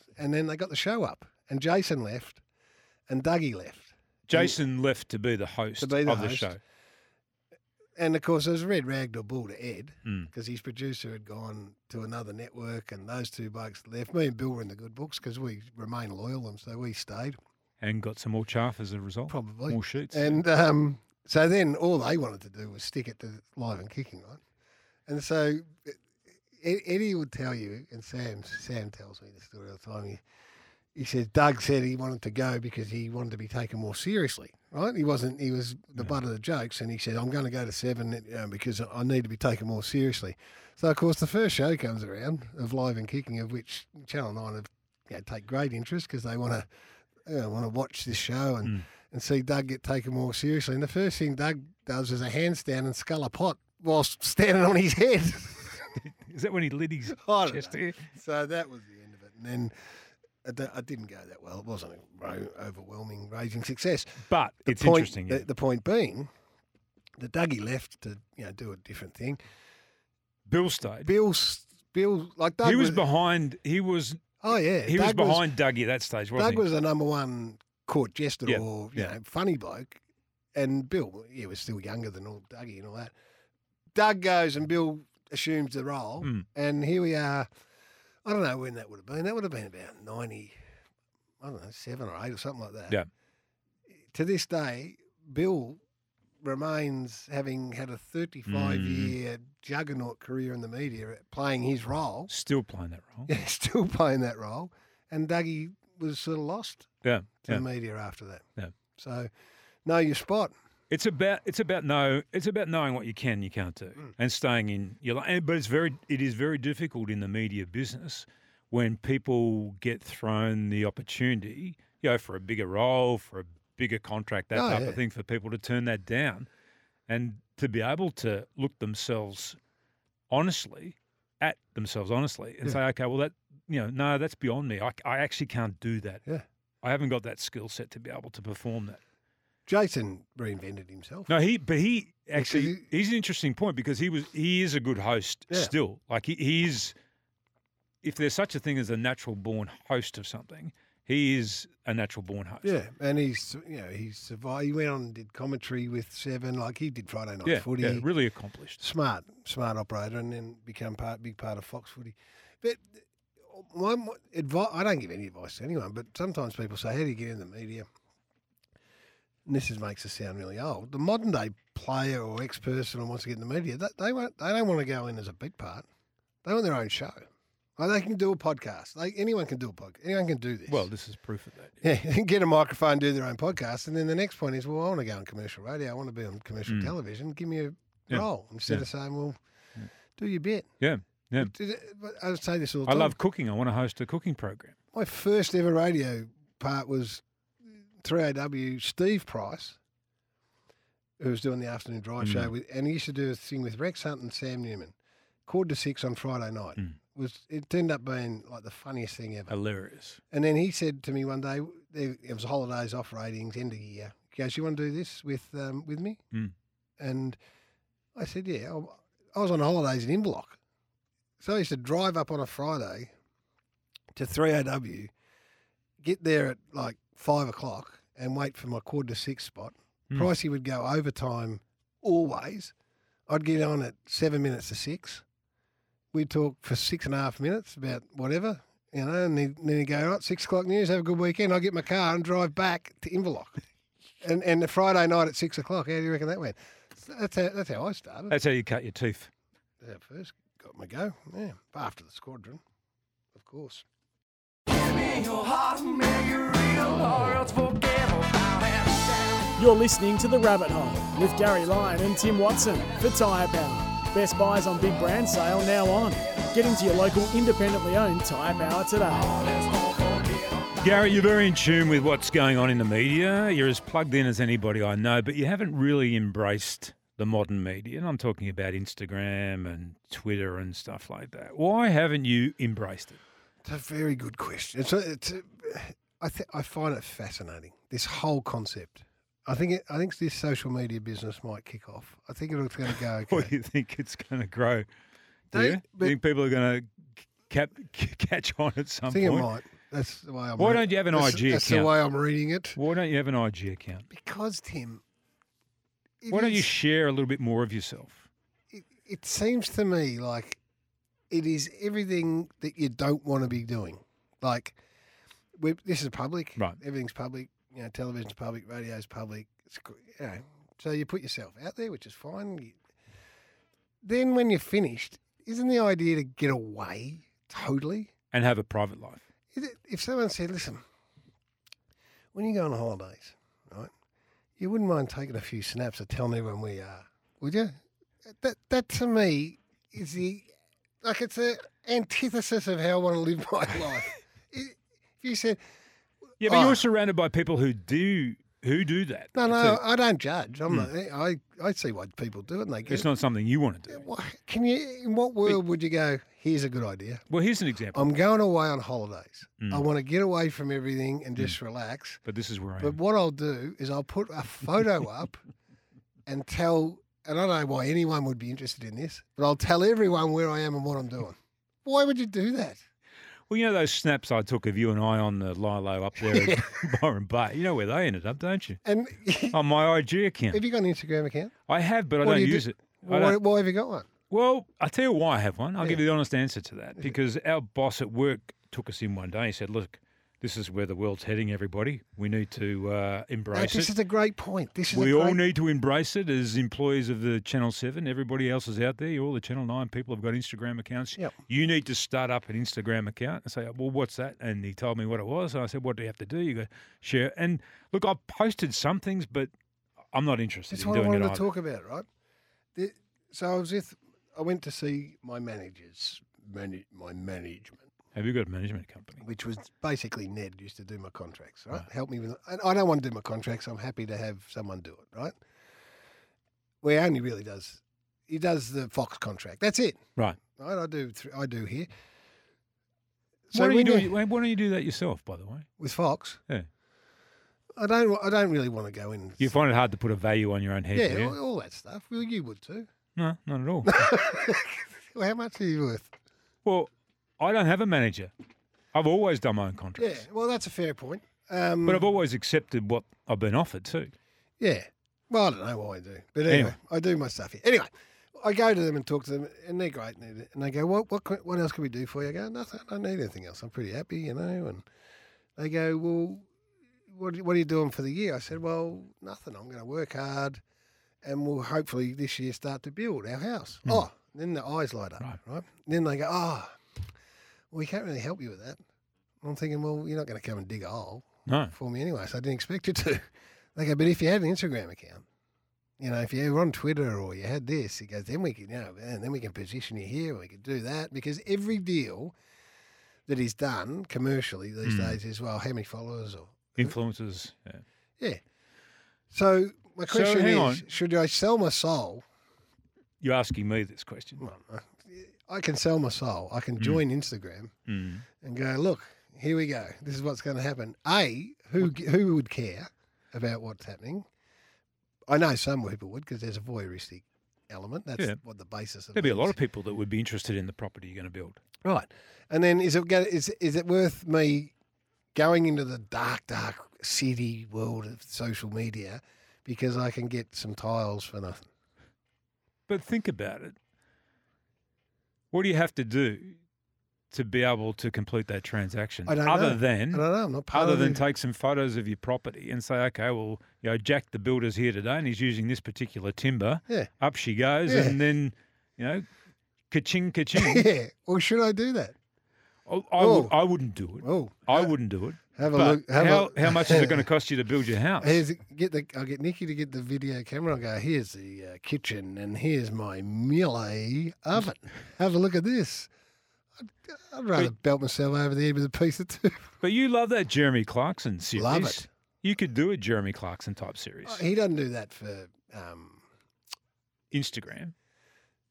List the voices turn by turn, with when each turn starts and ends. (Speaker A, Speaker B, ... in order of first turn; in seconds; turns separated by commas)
Speaker A: 0.1-2.4, Speaker A: 3.1-4.6, Speaker B: 4.3-6.6, Speaker A: 5.8-6.5, Speaker A: 8.0-17.4, Speaker B: 10.1-10.3, Speaker B: 17.8-20.4, Speaker A: 19.3-24.4, Speaker A: 25.1-26.0, Speaker A: 26.5-30.2, Speaker A: 30.9-46.7, Speaker A: 47.2-56.0, Speaker B: 56.0-58.1, Speaker A: 57.1-59.8, Speaker A: 60.4-66.3, Speaker B: 64.3-65.5, Speaker A: 67.2-69.4, Speaker B: 70.5-71.1, Speaker A: 71.0-73.0, Speaker B: 72.6-74.3, Speaker A: 74.4-75.5, Speaker B: 74.8-76.7, Speaker A: 76.4-80.0, Speaker B: 78.5-79.1, Speaker A: 80.5-83.1, Speaker A: 83.9-87.5, Speaker A: 88.2-90.6, Speaker A: 91.4-93.0, Speaker A: 94.0-95.8, Speaker A: 96.4-102.3, Speaker B: 98.5-99.2, Speaker B: 102.3-103.3, Speaker A: 103.3-106.9, Speaker B: 107.0-107.7, Speaker A: 107.4-109.3, Speaker A: 109.8-110.5, Speaker B: 110.9-126.5, Speaker A: 124.5-125.0, Speaker B: 127.1-129.6, Speaker B: 130.3-136.2, Speaker B: 136.8-139.0, Speaker A: 139.7-141.3, Speaker B: 141.3-146.9, Speaker A: 142.3-142.8, Speaker B: 148.0-152.7, Speaker A: 152.6-158.1, Speaker B: 157.4-158.8, Speaker A: 158.8-167.9, Speaker A: 169.5-175.9, Speaker A: 176.4-180.8, Speaker B: 180.7-181.8, Speaker A: 181.8-189.4, Speaker B: 186.7-186.9, Speaker B: 188.1-188.9, Speaker A: 190.2-190.7, Speaker B: 190.8-191.5, Speaker A: 191.4-193.2, Speaker B: 192.9-194.8, Speaker A: 194.9-197.2, Speaker A: 198.0-199.8, Speaker A: 201.2-204.9, Speaker B: 202.2-202.5, Speaker A: 205.5-209.5, Speaker B: 209.5-210.2, Speaker A: 210.3-216.2, Speaker A: 217.0-217.4, Speaker A: 218.2-220.6, Speaker A: 221.4-223.1, Speaker A: 224.1-225.1, Speaker A: 226.0-232.7, Speaker A: 233.3-235.2, Speaker A: 236.1-243.6, Speaker A: 244.2-248.4, Speaker B: 248.3-249.3, Speaker A: 249.8-252.6, Speaker A: 253.3-253.8, Speaker C: 254.9-270.3, Speaker B: 270.8-283.2, Speaker A: 283.6-293.5, Speaker B: 293.3-294.9, Speaker A: 295.5-296.2, Speaker B: 295.5-299.5, Speaker A: 299.1-302.8, Speaker B: 300.6-301.9, Speaker B: 302.8-304.1, Speaker A: 304.1-305.0, Speaker A: 306.2-306.7, Speaker B: 306.3-308.3, Speaker A: 308.7-310.6, Speaker A: 311.3-314.8, Speaker A: 315.6-322.8, Speaker A: 324.0-328.1, Speaker B: 328.3-329.2, Speaker A: 329.5-330.8, Speaker A: 332.3-333.9, Speaker A: 334.6-340.5, Speaker A: 341.0-345.6, Speaker B: 346.4-349.8, Speaker A: 346.4-346.8, Speaker A: 349.4-353.1, Speaker B: 352.9-354.1, Speaker A: 353.9-357.2, Speaker B: 357.3-358.1, Speaker A: 357.9-362.2, Speaker B: 359.6-359.9, Speaker B: 362.2-363.0, Speaker A: 362.8-365.4, Speaker A: 366.3-372.8, Speaker B: 373.5-378.8, Speaker A: 376.2-376.8, Speaker A: 378.9-379.6, Speaker B: 379.5-380.6, Speaker A: 380.5-381.5, Speaker B: 381.7-383.4, Speaker A: 382.2-384.1, Speaker B: 384.3-393.9, Speaker A: 393.5-395.4, Speaker B: 394.9-409.5, Speaker B: 410.1-411.5, Speaker A: 410.7-412.1, Speaker A: 412.8-417.9, Speaker B: 418.1-419.2, Speaker A: 419.2-425.4, Speaker A: 426.8-431.9, Speaker A: 433.5-434.1, Speaker B: 433.5-435.7, Speaker A: 435.8-436.4, Speaker A: 437.8-439.5, Speaker B: 439.4-441.4, Speaker A: 440.9-442.9, Speaker B: 443.2-444.1, Speaker A: 443.9-446.1, Speaker B: 446.6-448.3, Speaker B: 448.9-450.2, Speaker A: 450.0-452.0, Speaker B: 451.9-454.1, Speaker A: 454.6-464.9, Speaker B: 456.5-456.8, Speaker A: 465.6-466.5, Speaker A: 467.1-470.6, Speaker A: 471.2-476.8, Speaker A: 477.7-478.8, Speaker A: 479.4-485.2, Speaker B: 481.5-481.7, Speaker A: 486.0-492.4, Speaker A: 493.3-496.9, Speaker B: 494.8-495.2, Speaker B: 496.8-497.8, Speaker A: 499.3-502.2, Speaker B: 500.1-500.9, Speaker B: 503.2-504.4, Speaker A: 504.4-507.7, Speaker B: 507.9-508.2, Speaker A: 508.4-514.3, Speaker A: 515.3-519.6, Speaker B: 519.1-521.6, Speaker A: 521.8-524.7, Speaker A: 525.3-531.7, Speaker B: 532.9-533.8, Speaker B: 535.5-536.6, Speaker B: 537.3-549.3, Speaker A: 539.3-541.2, Speaker A: 547.9-548.2, Speaker B: 549.9-550.9, Speaker A: 550.5-552.2, Speaker B: 552.9-558.4, Speaker A: 553.2-553.5, Speaker A: 554.2-554.9, Speaker A: 555.5-557.3, Speaker A: 558.2-566.1, Speaker A: 566.8-569.7, Speaker B: 569.8-574.4, Speaker A: 571.6-572.1, Speaker A: 574.2-576.2, Speaker B: 577.3-577.9